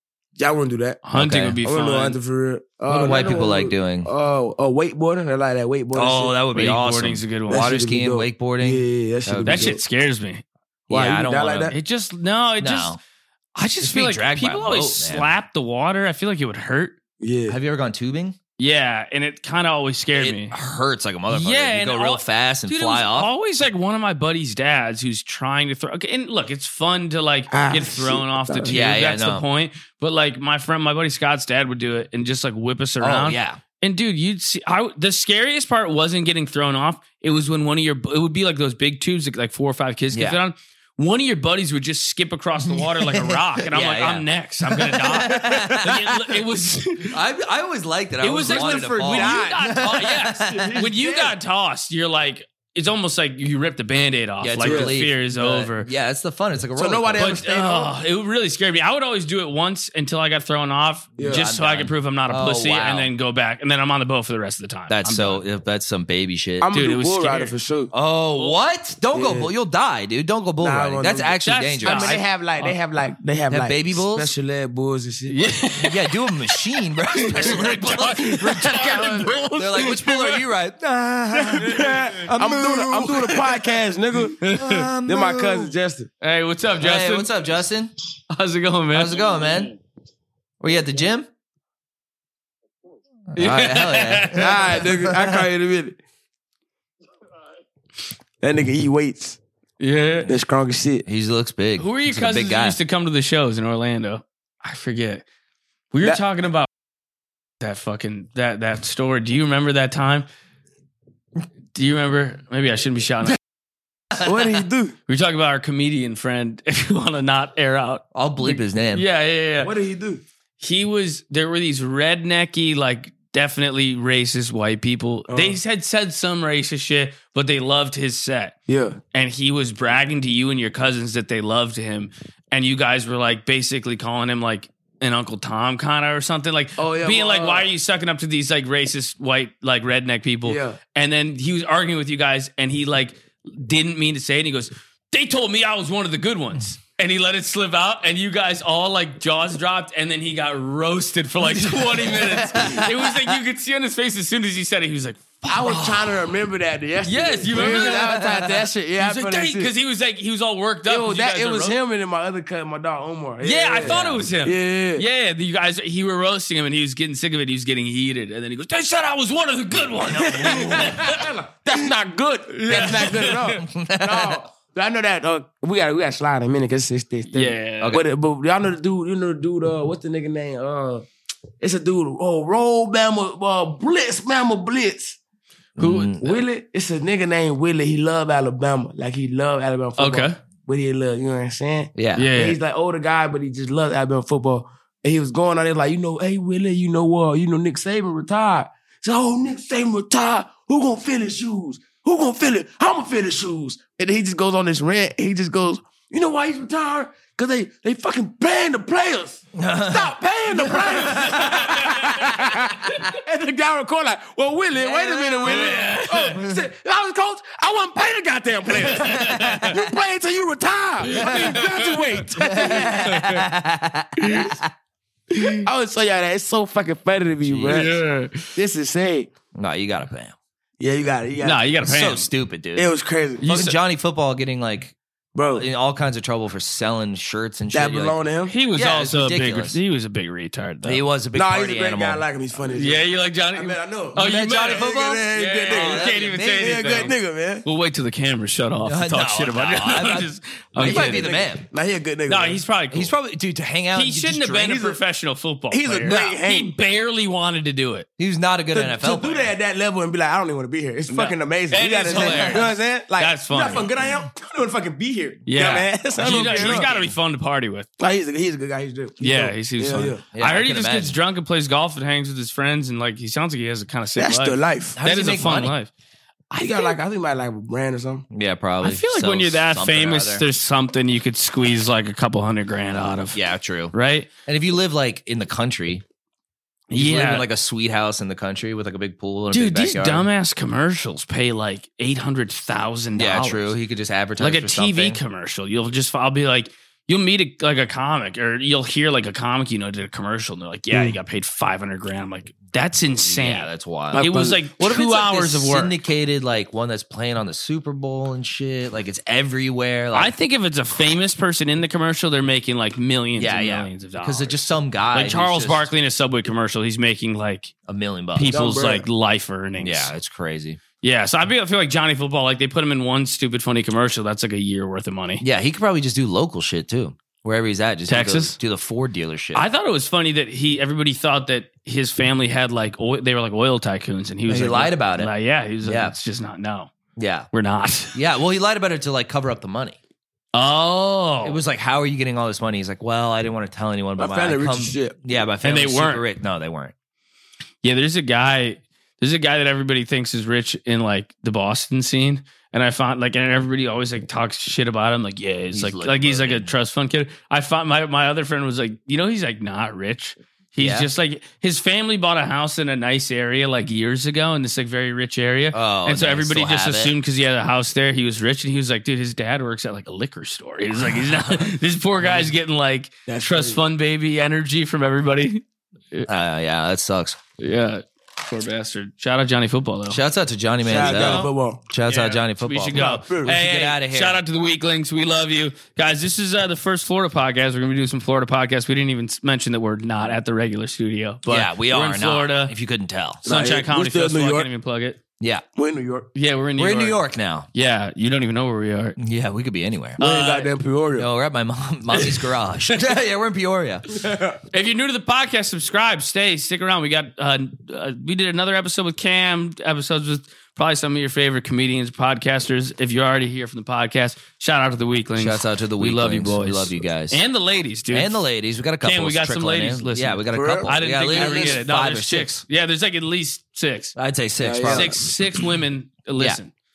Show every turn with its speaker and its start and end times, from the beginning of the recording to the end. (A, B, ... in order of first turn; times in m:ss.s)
0:00.4-0:01.0 A
0:01.0-0:02.2 B
0:01.1-0:01.6 C
0:01.6-0:06.3 A
0:02.9-0:04.1 C
0:05.9-0:09.8 C
0:06.5-0:07.7 B
0:07.5-0:09.8 A
0:09.5-0:10.4 B
0:10.9-0:11.7 C
0:10.9-0:11.7 A
0:11.7-0:13.0 B
0:12.6-0:13.0 C
0:13.6-0:16.9 B
0:13.8-0:15.3 C
0:17.2-0:17.6 A
0:17.5-0:18.4 C
0:18.6-0:20.5 B
0:20.1-0:23.3 C
0:21.3-0:47.2 B
0:27.5-0:28.7 A
0:28.7-0:29.4 C
0:33.0-0:33.6 C
0:40.1-0:40.4 C
0:42.7-0:46.1 C
0:45.2-0:46.4 A
0:47.1-0:50.8 C
0:48.2-0:55.9 B
0:48.4-0:49.9 A
0:50.5-0:51.4 A
0:54.4-0:57.3 C
0:54.6-0:54.9 A
0:56.8-0:58.0 A
0:57.2-1:05.4 B
1:01.2-1:01.4 A
1:01.2-1:03.1 C
1:04.9-1:06.7 C
1:06.6-1:07.9 A
1:06.7-1:07.5 B
1:07.9-1:12.2 C
1:09.1-1:09.5 A
1:10.6-1:15.4 A
1:11.4-1:12.7 B
1:13.5-1:14.3 C
1:15.3-1:16.6 B
1:15.8-1:18.8 C
1:17.2-1:20.4 B
1:18.4-1:19.4 A
1:19.5-1:23.5 C
1:21.3-1:24.4 A
1:21.6-1:21.9 B
1:24.4-1:24.9 B
1:24.4-1:25.7 C
1:25.1-1:26.1 A
1:26.2-1:27.3 B
1:26.8-1:27.9 C
1:28.3-1:29.3 B
1:28.9-1:29.8 C
1:30.6-1:31.3 C
1:33.3-1:35.3 C
1:33.4-1:34.9 B
1:34.3-1:36.0 A
1:38.4-1:39.4 A
1:39.8-1:40.3 B
1:40.2-1:41.0 A
1:41.0-1:42.8 C
1:41.8-1:45.2 B
1:45.9-1:46.7 B
1:47.6-1:50.3 B
1:51.7-1:53.4 B
1:54.2-1:55.0 A
1:55.1-1:59.7 B
1:58.1-1:59.0 C
1:59.6-2:00.2 A
2:00.6-2:08.5 B
2:05.3-2:05.6 A
2:08.7-2:09.0 A
2:09.1-2:35.8 B
2:16.8-2:17.7 A
2:20.4-2:20.8 A
2:31.6-2:32.5 A
2:32.5-2:32.9 C
2:35.5-2:39.7 A
2:35.6-2:36.2 C
2:37.0-2:38.4 B
2:37.5-2:38.2 C
2:39.0-2:41.8 B
2:40.8-2:45.0 A
2:43.4-2:51.3 B
2:43.8-2:44.2 C
2:50.0-3:01.0 A
2:52.5-2:53.6 B
2:53.6-2:54.4 C
2:57.3-2:58.0 B
3:01.6-3:05.2 A
3:05.8-3:06.4 C
3:05.8-3:43.2 A
3:10.0-3:10.4 B
3:11.9-3:12.3 C
3:12.2-3:12.6 B
3:29.5-3:30.1 C
3:31.2-3:32.1 B
3:34.9-3:35.7 C
3:35.4-3:36.4 B
3:38.8-3:39.8 B
3:39.0-3:39.6 C
3:41.0-3:42.3 B
3:41.1-3:41.6 C
3:42.4-3:44.6 C
3:43.0-3:43.4 B
3:45.4-3:45.6 B
3:45.4-3:48.0 A
3:47.4-3:47.8 C
3:47.7-3:48.5 B
3:48.6-3:49.3 A
3:49.6-3:50.3 C
3:50.8-3:51.6 A
3:51.4-3:52.3 B
3:51.8-3:52.9 C
3:52.7-3:53.7 A
3:53.4-3:53.8 B
3:53.4-3:55.0 C
3:55.3-3:55.6 A
3:55.5-3:58.2 C
3:57.7-3:58.5 A
3:58.4-4:01.0 B
3:58.7-3:59.8 C
4:00.8-4:02.2 C
4:01.3-4:07.6 A
4:02.7-4:11.3 B
4:04.2-4:07.1 C
4:08.8-4:11.6 C
4:10.8-4:12.6 A
4:12.3-4:13.1 B
4:12.9-4:14.8 C
4:13.9-4:18.1 B
4:14.6-4:15.0 A
4:15.7-4:16.7 A
4:18.2-4:19.5 C
4:18.7-4:26.9 A
4:21.1-4:23.9 B
4:22.1-4:22.7 C
4:25.5-4:27.9 B
4:26.2-4:27.1 C
4:28.0-4:30.2 A
4:29.2-4:35.9 B
4:30.3-4:31.2 C
4:34.2-4:35.0 A
4:35.0-4:35.7 C
4:36.5-4:38.2 A
4:38.3-4:40.4 C
4:38.8-4:43.4 B
4:43.3-4:43.9 C
4:43.9-4:44.3 B
4:44.4-4:46.0 C
4:46.9-4:47.4 B
4:46.9-4:50.3 C
4:49.5-4:53.8 B
4:53.1-4:55.2 C
4:54.4-5:05.9 B
5:00.9-5:01.2 A
5:03.1-5:04.3 C
5:04.1-5:05.7 A
5:05.5-5:10.3 C
5:10.1-5:17.7 B
5:13.4-5:15.9 C
5:17.9-5:18.5 C
5:18.3-5:20.1 B
5:18.4-5:19.1 A
5:19.8-5:20.8 C
5:21.0-5:25.4 B
5:25.4-5:29.6 C
5:28.1-5:28.6 B
5:29.5-5:36.9 B
5:34.5-5:35.3 C
5:35.8-5:36.1 C
5:37.2-5:37.5 C
5:37.5-5:38.2 B
5:38.1-5:40.0 C
5:40.5-5:41.6 B
5:41.4-5:46.9 C
5:44.2-5:45.2 A
5:45.6-5:46.2 B
5:47.8-6:16.3 B
5:55.7-5:56.7 C
6:00.8-6:01.1 C
6:05.7-6:07.1 C
6:12.2-6:12.5 A
6:13.3-6:13.8 A
6:16.2-6:17.4 C
6:17.6-6:20.2 B
6:20.1-6:24.4 C
6:20.8-6:21.8 A
6:21.0-6:21.5 B
6:22.1-6:32.7 B
6:22.9-6:23.5 A
6:31.5-6:33.4 C
6:33.4-6:34.7 A
6:33.4-6:35.2 B
6:35.8-6:36.3 A
6:36.3-6:37.2 B
6:36.8-6:37.7 C
6:37.7-6:39.2 B
6:39.2-6:40.2 C
6:40.2-6:40.7 B
6:40.2-6:41.3 A
6:41.2-6:44.1 C
6:42.2-6:42.4 B
6:44.1-6:44.6 A
6:44.7-6:58.4 B
6:55.4-6:57.4 C
6:58.1-7:02.6 C
6:59.0-7:04.1 B
7:00.5-7:01.8 A
7:04.2-7:05.6 C
7:04.6-7:05.1 A
7:04.8-7:06.7 B